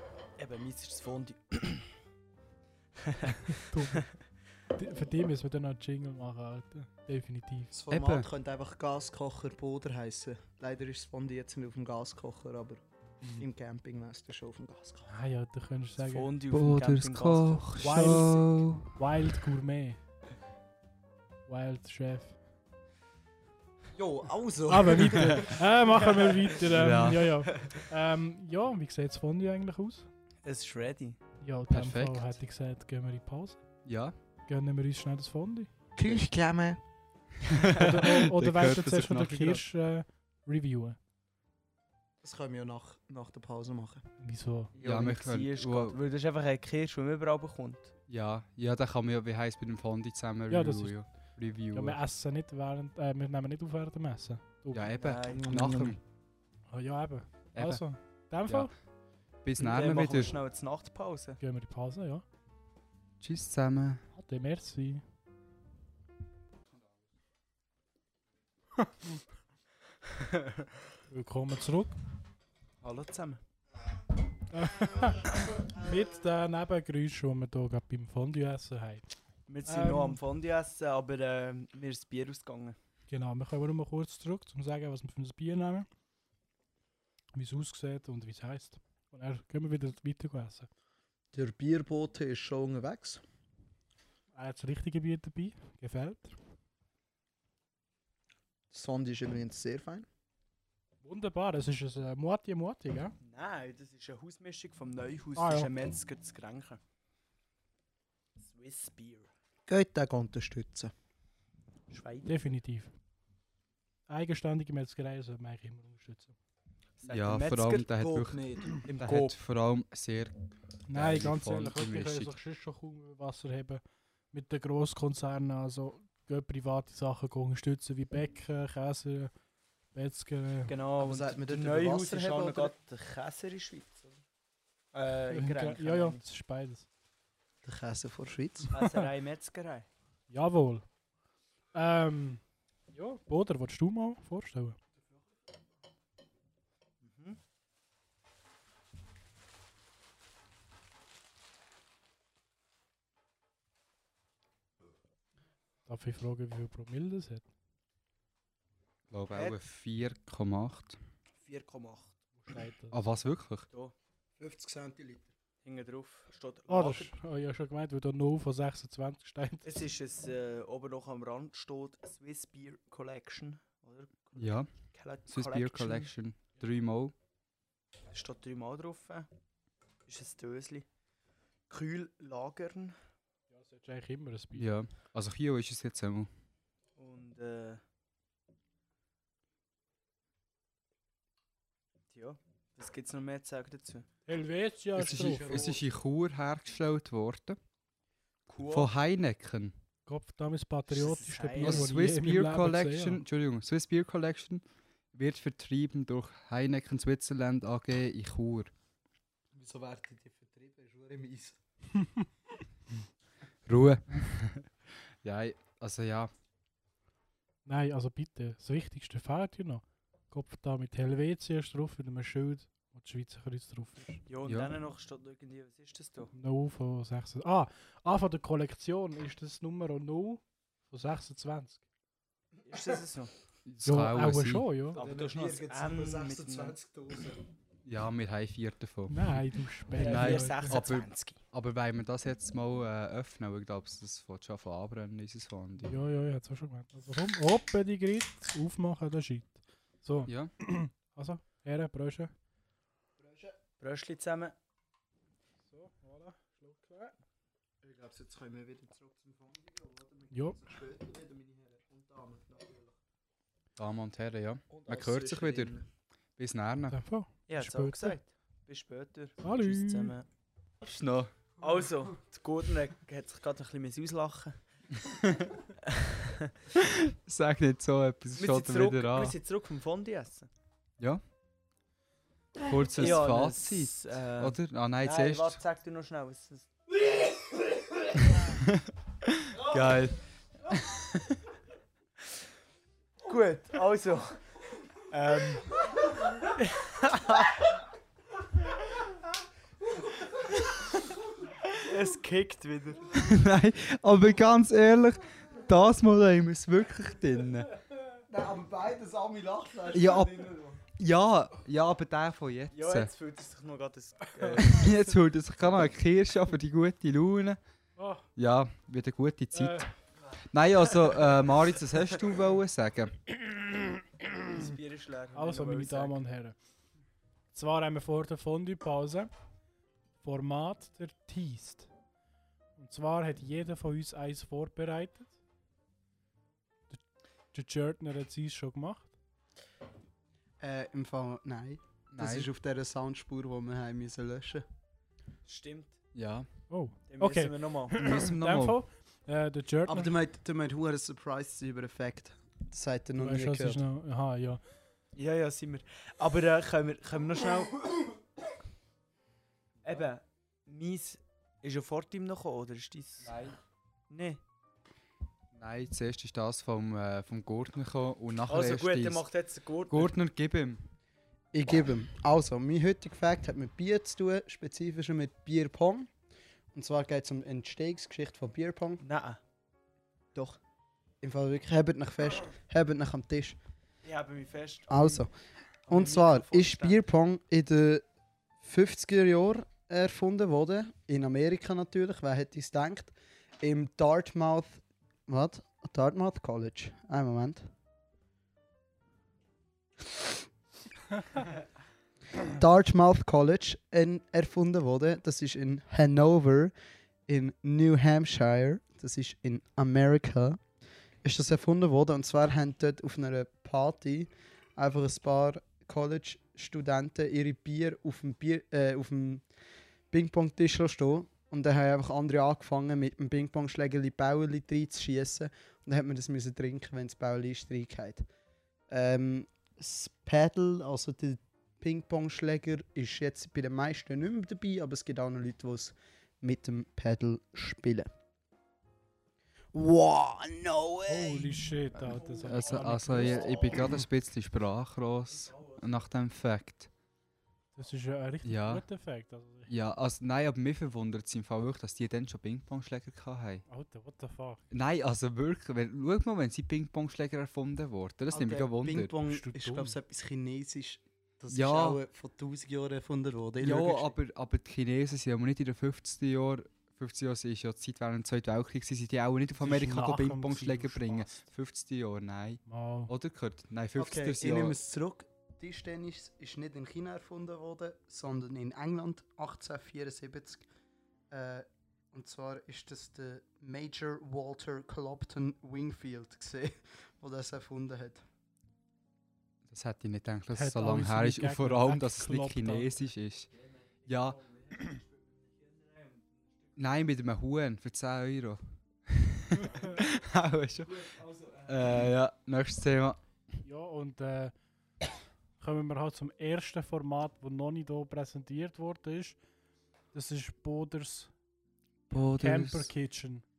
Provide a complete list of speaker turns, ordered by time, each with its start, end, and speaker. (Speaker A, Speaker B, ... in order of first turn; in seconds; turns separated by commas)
Speaker A: 0.4-1.9, Speaker A: 3.0-4.1, Speaker B: 3.5-4.1, Speaker B: 4.7-7.7, Speaker C: 7.7-12.8, Speaker D: 7.9-8.3, Speaker C: 13.3-15.1, Speaker B: 15.1-16.3, Speaker A: 16.0-18.4, Speaker D: 16.5-18.9, Speaker B: 17.8-20.0, Speaker B: 21.5-22.4, Speaker C: 23.9-25.6, Speaker B: 24.7-30.1, Speaker D: 26.7-27.5, Speaker A: 30.4-31.2, Speaker B: 31.4-33.6, Speaker D: 31.7-32.4, Speaker D: 33.9-34.1, Speaker B: 34.5-35.7, Speaker C: 36.0-36.8, Speaker D: 37.5-39.6, Speaker B: 37.8-41.0, Speaker C: 42.2-44.0, Speaker B: 44.2-44.7, Speaker A: 44.8-47.9, Speaker D: 44.8-46.0, Speaker D: 48.1-52.0, Speaker B: 50.5-51.0, Speaker B: 51.7-54.9, Speaker D: 54.7-56.0, Speaker A: 54.9-55.6, Speaker C: 55.3-56.0, Speaker B: 56.7-58.7, Speaker D: 57.5-57.8, Speaker D: 59.4-60.4, Speaker A: 59.6-61.4, Speaker B: 61.4-62.2, Speaker D: 63.2-64.0, Speaker B: 64.2-65.0, Speaker B: 68.8-69.1, Speaker B: 71.1-72.0, Speaker A: 72.8-73.4, Speaker B: 74.5-79.1, Speaker A: 79.5-82.8, Speaker B: 79.7-80.2, Speaker B: 83.1-85.9, Speaker B: 87.3-90.7, Speaker C: 91.3-93.2, Speaker B: 94.3-96.3, Speaker C: 98.7-100.1, Speaker B: 101.0-103.2, Speaker A: 103.2-106.8, Speaker B: 105.4-105.7, Speaker A: 108.4-109.3, Speaker C: 109.7-110.9, Speaker A: 111.9-112.5, Speaker B: 112.3-112.9, Speaker B: 114.1-116.3, Speaker A: 117.0-117.9, Speaker D: 117.1-118.4, Speaker C: 118.0-118.8, Speaker A: 118.8-119.4, Speaker D: 119.0-120.3, Speaker B: 120.9-123.8, Speaker D: 120.9-122.3, Speaker B: 124.3-129.3, Speaker B: 129.9-130.7, Speaker A: 130.7-134.2, Speaker C: 131.0-132.7, Speaker A: 134.9-136.2, Speaker B: 135.3-136.9, Speaker C: 137.6-138.8, Speaker A: 138.7-139.9, Speaker B: 140.3-140.8, Speaker B: 141.7-142.4, Speaker B: 142.9-144.8, Speaker A: 147.0-147.4, Speaker B: 155.9-157.4, Speaker D: 159.1-161.0, Speaker A: 159.3-159.6, Speaker A: 161.4-162.2, Speaker B: 162.4-163.0, Speaker D: 162.9-163.7, Speaker C: 164.4-165.3, Speaker A: 165.6-167.1, Speaker B: 166.7-169.8, Speaker A: 169.7-176.1, Speaker D: 174.4-174.7, Speaker D: 175.3-177.1, Speaker A: 178.1-179.3, Speaker A: 180.1-180.9, Speaker A: 181.7-183.0, Speaker B: 183.5-184.7, Speaker D: 184.6-186.3, Speaker A: 187.0-187.8, Speaker A: 192.1-194.1, Speaker B: 194.3-195.6, Speaker D: 195.0-197.6, Speaker C: 195.1-195.8, Speaker A: 198.5-198.9, Speaker D: 198.7-199.8, Speaker B: 200.1-203.2, Speaker A: 200.9-201.9, Speaker D: 201.6-204.6, Speaker D: 205.1-208.7, Speaker C: 209.5-211.6, Speaker D: 213.7-214.7, Speaker D: 215.2-216.3, Speaker B: 217.7-224.2, Speaker A: 224.3-226.3, Speaker D: 224.4-224.8, Speaker B: 226.3-231.8, Speaker A: 232.7-233.3, Speaker D: 233.7-234.7, Speaker B: 233.8-235.0, Speaker A: 234.9-236.8, Speaker C: 234.9-237.4, Speaker D: 237.8-239.4, Speaker B: 239.1-240.8, Speaker A: 239.9-241.4, Speaker D: 240.0-246.0, Speaker B: 245.8-252.3, Speaker C: 253.2-253.6, Speaker A: 253.8-254.6, Speaker B: 255.7-257.1, Speaker C: 257.8-263.0, Speaker B: 260.3-260.6, Speaker D: 263.8-265.8, Speaker C: 264.7-265.8, Speaker A: 265.1-265.7, Speaker D: 266.4-267.0, Speaker B: 266.9-268.2, Speaker A: 267.5-270.3, Speaker B: 269.4-270.1, Speaker D: 270.8-271.3, Speaker A: 271.6-274.6, Speaker A: 275.8-276.5, Speaker D: 276.7-279.4, Speaker A: 278.3-280.5, Speaker D: 282.6-285.6, Speaker A: 283.0-286.7, Speaker D: 288.3-290.2, Speaker D: 290.7-291.2, Speaker A: 293.2-294.4, Speaker A: 295.1-295.9, Speaker A: 296.4-297.7, Speaker A: 301.7-303.2, Speaker D: 303.1-307.7, Speaker C: 308.3-310.8, Speaker D: 309.9-313.1, Speaker A: 312.7-314.9, Speaker D: 314.7-317.6, Speaker B: 318.0-318.3, Speaker D: 318.4-319.9, Speaker B: 319.5-319.9, Speaker D: 320.5-323.4, Speaker A: 324.5-326.2, Speaker B: 325.3-326.6, Speaker B: 327.5-329.3, Speaker B: 330.2-331.9, Speaker B: 332.8-335.4, Speaker B: 337.5-339.1, Speaker C: 340.6-344.6, Speaker D: 342.1-342.5, Speaker A: 345.5-346.0, Speaker D: 346.1-346.5, Speaker B: 346.7-350.1, Speaker A: 347.1-348.0, Speaker D: 347.9-348.8, Speaker C: 349.9-353.8, Speaker B: 353.2-354.6, Speaker A: 355.1-357.9, Speaker A: 359.8-363.4, Speaker D: 363.2-363.6, Speaker A: 364.1-364.4, Speaker D: 365.5-369.2, Speaker A: 368.5-370.1, Speaker D: 369.9-370.8, Speaker C: 371.5-376.1, Speaker C: 376.7-379.0, Speaker A: 379.0-379.4, Speaker C: 381.2-383.6, Speaker A: 384.0-385.2, Speaker C: 384.9-385.3, Speaker A: 385.9-387.0, Speaker C: 385.9-388.1, Speaker C: 388.6-397.7, Speaker C: 402.4-406.7, Speaker C: 407.3-410.6, Speaker C: 411.2-419.4, Speaker C: 420.1-428.3, Speaker C: 428.9-438.1, Speaker C: 439.7-441.7, Speaker B: 441.1-443.7, Speaker D: 442.4-446.9, Speaker A: 442.4-442.9, Speaker C: 443.2-443.7, Speaker A: 445.3-445.9, Speaker B: 447.8-449.7, Speaker D: 448.4-448.9, Speaker D: 449.7-453.6, Speaker B: 453.7-454.6, Speaker D: 454.7-459.1, Speaker C: 458.3-464.2, Speaker B: 459.3-460.0, Speaker D: 461.5-462.0, Speaker D: 463.6-474.8, Speaker B: 469.6-471.4, Speaker B: 472.7-473.1, Speaker C: 474.0-480.7, Speaker C: 481.3-488.2, Speaker D: 489.7-493.5, Speaker B: 490.5-493.0, Speaker A: 494.1-496.2, Speaker D: 494.1-494.4, Speaker D: 496.8-501.1, Speaker A: 501.1-501.6, Speaker D: 501.6-503.2, Speaker B: 503.6-504.5, Speaker B: 505.6-509.4, Speaker B: 510.1-511.3, Speaker D: 512.1-512.9, Speaker B: 512.3-513.5